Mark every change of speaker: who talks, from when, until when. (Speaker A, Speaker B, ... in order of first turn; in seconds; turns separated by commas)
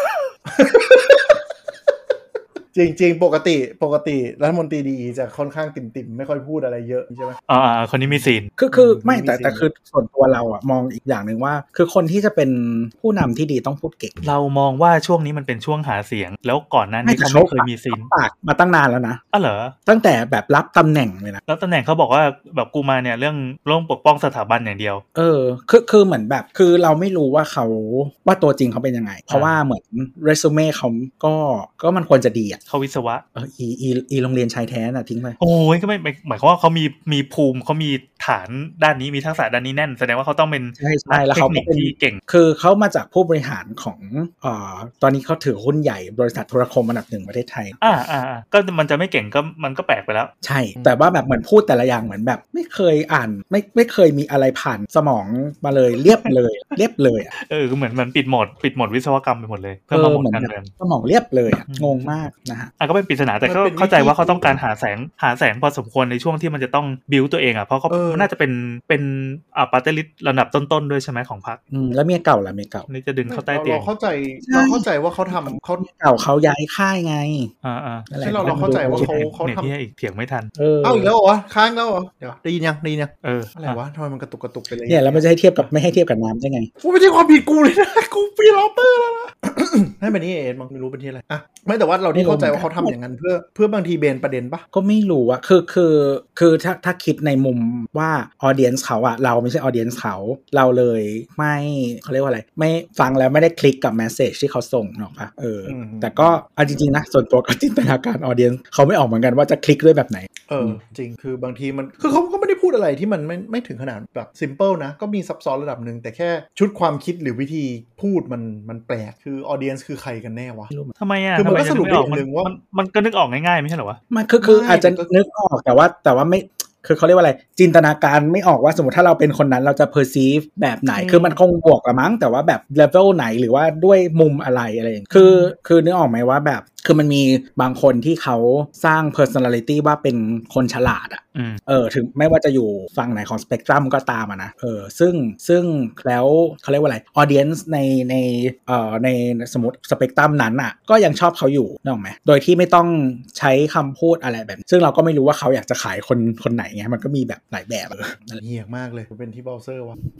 Speaker A: 0.5-1.4, Speaker A: 2.7-7.4, Speaker B: 7.5-8.5, Speaker A: 8.1-9.7, Speaker C: 8.6-14.2, Speaker B: 14.2-18.1, Speaker C: 17.1-19.2, Speaker B: 19.3-19.8, Speaker C: 19.9-21.4, Speaker B: 21.5-25.0, Speaker C: 25.1-32.6, Speaker B: 29.3-29.6, Speaker B: 32.7-33.2, Speaker C: 33.4-35.4, Speaker B: 35.4-42.2, Speaker C: 40.8-47.8, Speaker B: 47.8-50.3, Speaker C: 50.4-57.3, Speaker B: 57.4-60.7, Speaker C: 59.9-62.7, Speaker B: 61.7-62.1, Speaker B: 62.8-71.6, Speaker A: 63.4-64.6, Speaker A: 67.9-68.3, Speaker C: 71.7-72.9, Speaker B: 72.9-73.9, Speaker A: 73.3-75.9, Speaker C: 74.4-77.5, Speaker B: 77.6-80.5, Speaker C: 78.1-79.2, Speaker A: 78.2-79.7, Speaker C: 80.6-81.1, Speaker A: 80.8-85.2, Speaker B: 83.2-83.8, Speaker C: 84.9-86.7, Speaker A: 86.8-94.7, Speaker C: 92.1-93.0, Speaker C: 94.7-110.8, Speaker A: 105.7-106.4, Speaker A: 110.5-120.7, Speaker B: 121.0-124.0, Speaker A: 121.4-122.5, Speaker C: 124.1-158.4, Speaker A: 124.4-125.1, Speaker A: 130.9-131.4, Speaker B: 141.3-141.6, Speaker A: 158.4-160.0